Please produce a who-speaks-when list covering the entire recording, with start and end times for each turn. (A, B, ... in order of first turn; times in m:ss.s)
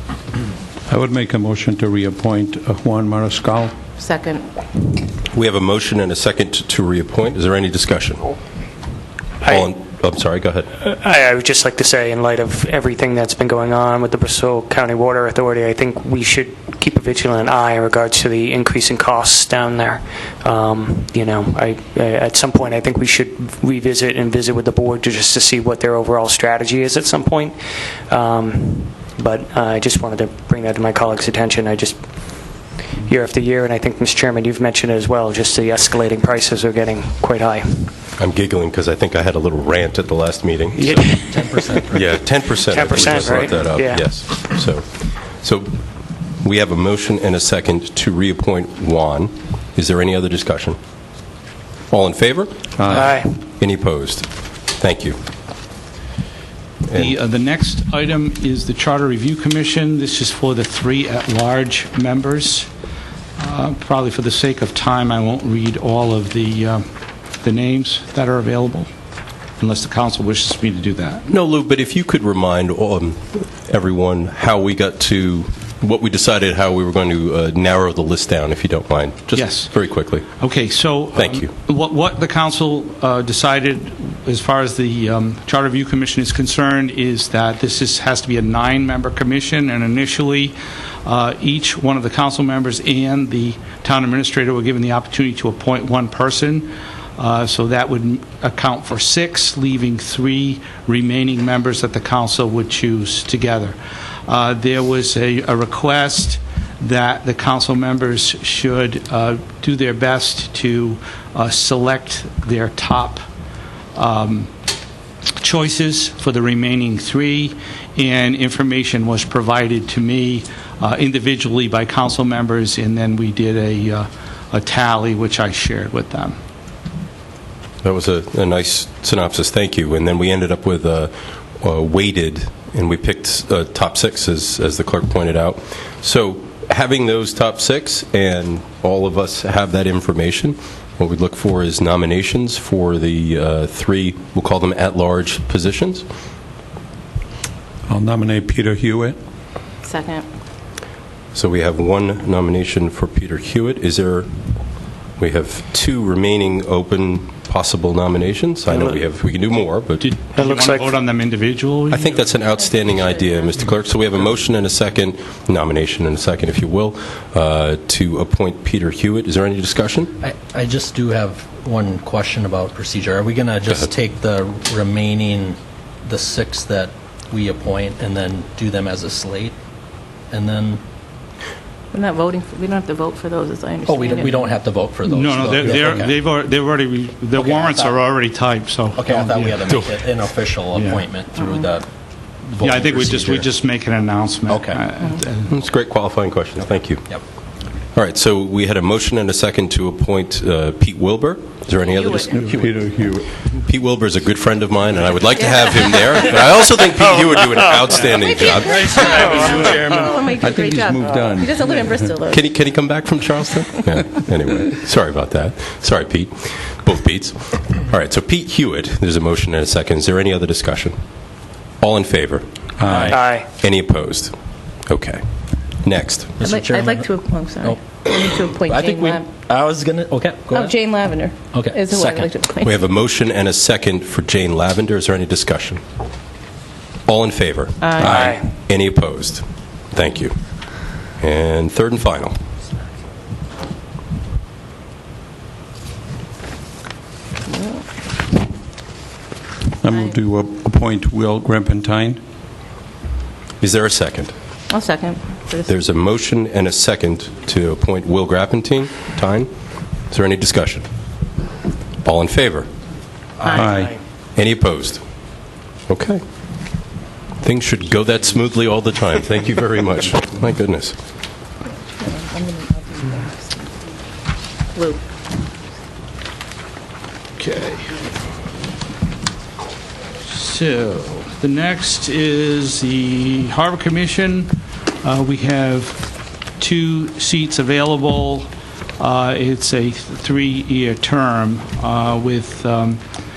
0:00.9-0:03.7 A
0:04.0-0:04.5 B
0:05.3-0:08.3 C
0:09.4-0:10.7 C
0:10.8-0:27.6 D
0:28.1-0:38.0 D
0:38.2-0:41.2 C
0:40.8-0:41.8 D
0:41.3-0:42.0 E
0:41.9-0:45.8 C
0:42.5-0:44.1 D
0:46.4-0:50.8 C
0:51.9-0:55.2 C
0:52.8-0:53.1 A
0:52.9-0:53.3 D
0:56.9-0:57.2 C
0:56.9-1:02.7 F
1:03.4-1:06.9 F
1:07.4-1:08.9 F
1:09.6-1:11.3 F
1:11.3-1:20.3 C
1:19.4-1:19.7 F
1:20.4-1:53.2 F
1:21.2-1:21.5 C
1:54.0-1:54.5 F
1:55.4-2:06.4 F
2:07.8-2:26.1 C
2:27.9-2:29.2 A
2:29.8-2:30.3 B
2:31.3-2:34.3 C
2:35.2-2:40.0 C
2:40.0-2:42.2 F
2:40.4-2:40.9 D
2:41.9-2:50.1 C
2:42.8-2:43.4 B
2:50.2-2:59.6 E
3:00.3-3:00.8 E
3:01.9-3:04.5 B
3:03.9-3:06.2 E
3:05.1-3:09.9 F
3:07.4-3:08.0 E
3:08.9-3:11.9 E
3:11.4-3:11.7 B
3:12.5-3:13.5 E
3:12.6-3:15.5 F
3:14.5-3:14.8 E
3:15.5-3:17.1 C
3:17.9-3:22.6 C
3:21.9-3:22.3 B
3:22.3-3:23.3 A
3:23.6-3:29.4 C
3:25.5-3:25.8 B
3:28.0-3:32.4 B
3:28.6-3:30.4 E
3:30.4-3:32.1 A
3:32.3-3:41.0 C
3:41.8-3:42.4 C
3:42.8-3:43.2 A
3:42.9-3:43.2 E
3:43.1-3:43.5 D
3:43.6-3:44.3 C
3:44.9-3:45.2 C
3:45.8-3:46.4 C
3:46.4-3:51.0 E
3:46.4-3:49.3 B
3:50.5-3:52.8 B
3:51.5-3:52.3 E
3:52.6-3:55.8 C
3:57.1-4:00.4 C
3:57.8-3:58.2 B
3:58.0-3:58.4 D
3:58.0-3:58.4 A
4:01.2-4:02.3 C
4:07.5-4:07.8 B
4:09.8-4:12.2 A
4:13.6-4:14.3 C
4:14.7-4:15.7 B
4:15.6-4:19.5 C
4:20.1-4:20.9 C
4:22.0-4:22.7 C
4:23.4-4:23.9 B
4:23.5-4:23.9 A
4:24.4-4:25.0 C
4:25.9-4:26.2 C
4:27.4-4:31.0 C
4:32.0-4:33.6 B
4:34.7-4:35.0 B
4:37.4-4:38.0 F
4:40.2-4:44.5 F
4:45.0-4:46.0 F
4:46.6-4:53.0 F